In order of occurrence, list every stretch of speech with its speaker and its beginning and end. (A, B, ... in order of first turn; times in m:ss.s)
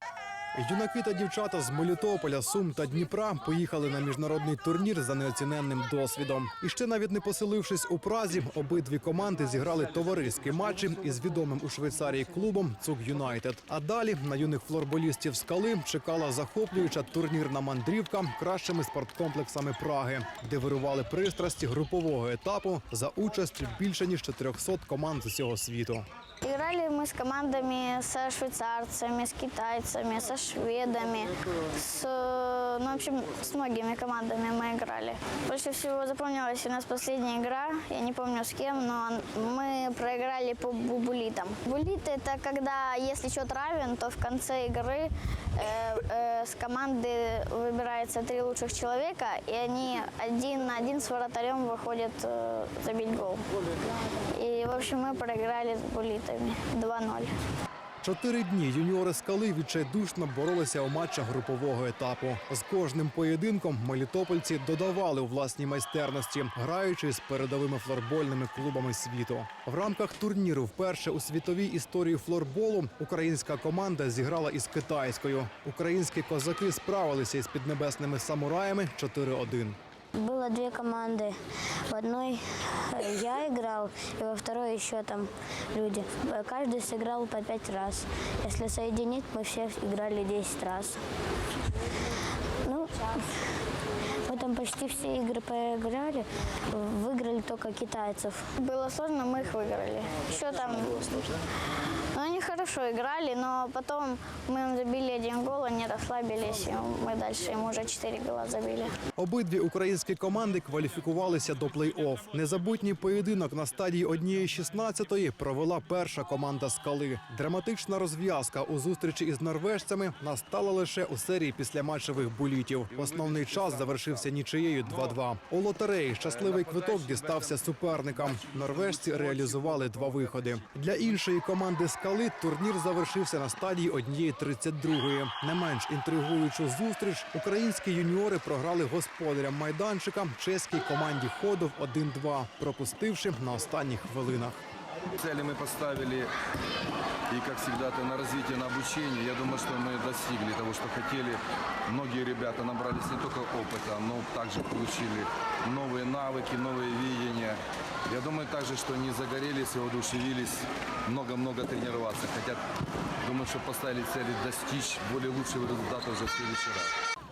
0:00.6-0:26.1 A
0:26.4-0:53.4 B
0:54.2-0:57.3 B
0:58.0-1:19.8 A
1:20.2-1:21.4 C
1:21.9-1:31.0 C
1:32.6-1:33.4 C
1:34.2-1:38.5 C
1:38.6-1:41.4 B
1:42.1-1:49.0 B
1:49.2-2:24.6 A
2:02.9-2:04.3 D
2:04.8-2:05.2 D
2:06.2-2:10.9 D
2:25.1-2:26.3 D
2:27.3-2:42.6 D
2:43.2-2:46.9 D